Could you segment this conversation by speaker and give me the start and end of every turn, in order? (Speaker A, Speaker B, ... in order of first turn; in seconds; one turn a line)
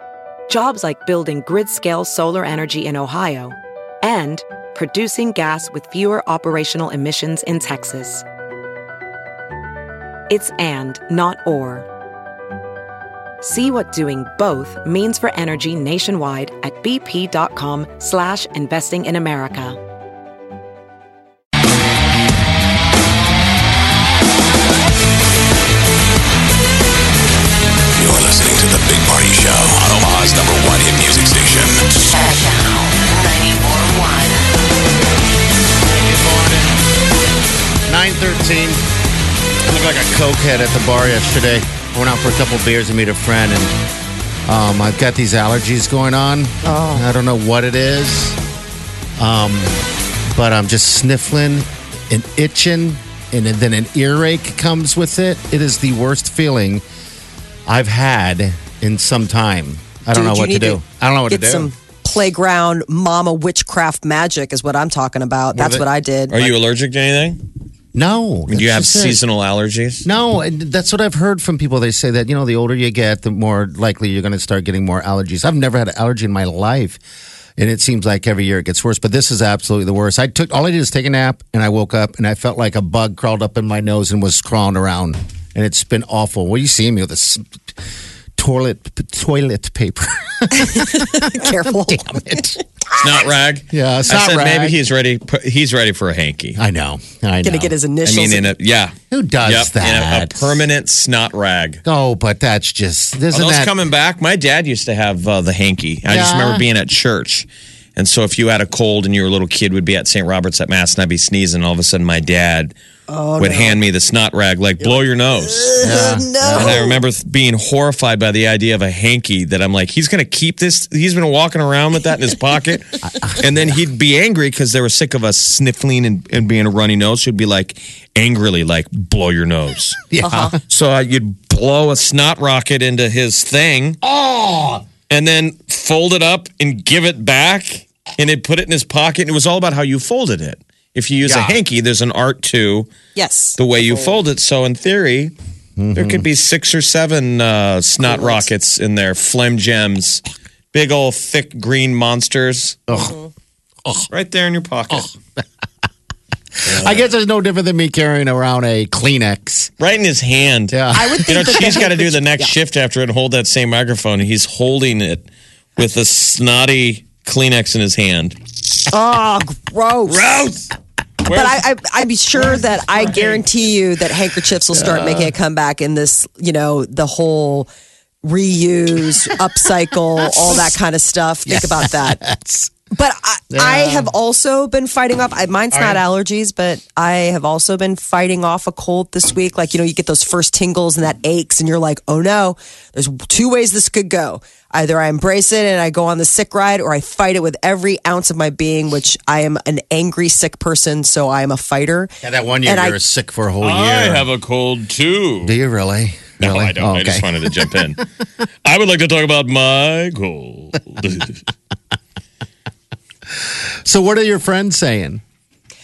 Speaker A: 0.5-8.2
Speaker A: 10.3-11.9
Speaker A: 13.4-19.8
Speaker B: 27.9-31.8
Speaker C: 32.1-34.4
Speaker D: 35.8-36.8
Speaker D: 37.9-38.8
Speaker D: 39.7-43.7
Speaker D: 44.5-48.4
Speaker E: 46.6-47.1
Speaker D: 49.2-49.8
Speaker D: 50.3-56.8
Speaker D: 57.7-61.7
Speaker E: 60.1-66.5
Speaker D: 65.5-65.9
Speaker F: 66.3-67.4
Speaker D: 67.9-69.2
Speaker F: 68.5-70.0
Speaker D: 70.0-77.0
Speaker D: 77.6-87.4
Speaker D: 88.4-92.6
Speaker E: 90.6-92.5
Speaker F: 93.0-96.6
Speaker D: 93.7-94.8
Speaker D: 96.5-97.7
Speaker E: 97.4-98.5
Speaker F: 98.0-101.8
Speaker D: 99.1-100.6
Speaker D: 101.8-103.7
Speaker F: 103.3-112.7
Speaker D: 106.1-106.6
Speaker E: 113.1-113.8
Speaker F: 113.4-122.9
Speaker E: 114.8-117.0
Speaker D: 115.8-116.8
Speaker D: 123.0-123.8
Speaker F: 123.4-130.0
Speaker D: 130.1-130.6
Speaker E: 130.2-130.6
Speaker F: 130.7-134.0
Speaker D: 134.0-134.8
Speaker F: 135.1-142.9
Speaker D: 141.2-141.6
Speaker E: 143.1-143.6
Speaker F: 143.6-145.3
Speaker D: 145.8-146.2
Speaker F: 145.9-152.8
Speaker E: 148.1-148.4
Speaker D: 152.9-153.2
Speaker E: 152.9-153.3
Speaker F: 154.1-155.1
Speaker F: 156.6-157.1
Speaker D: 156.7-159.7
Speaker F: 159.8-165.2
Speaker D: 160.7-161.6
Speaker E: 160.9-162.5
Speaker F: 165.8-168.4
Speaker E: 168.9-170.2
Speaker F: 170.1-170.7
Speaker F: 171.2-171.6
Speaker E: 171.3-177.7
Speaker F: 173.1-173.4
Speaker D: 174.7-175.3
Speaker E: 178.2-182.2
Speaker D: 181.5-182.7
Speaker E: 182.9-202.1
Speaker D: 183.5-184.1
Speaker D: 185.7-186.0
Speaker D: 202.2-204.3
Speaker E: 202.6-203.0
Speaker F: 203.6-205.5
Speaker D: 205.4-207.3
Speaker F: 206.4-208.0
Speaker F: 208.6-211.4
Speaker D: 213.8-215.2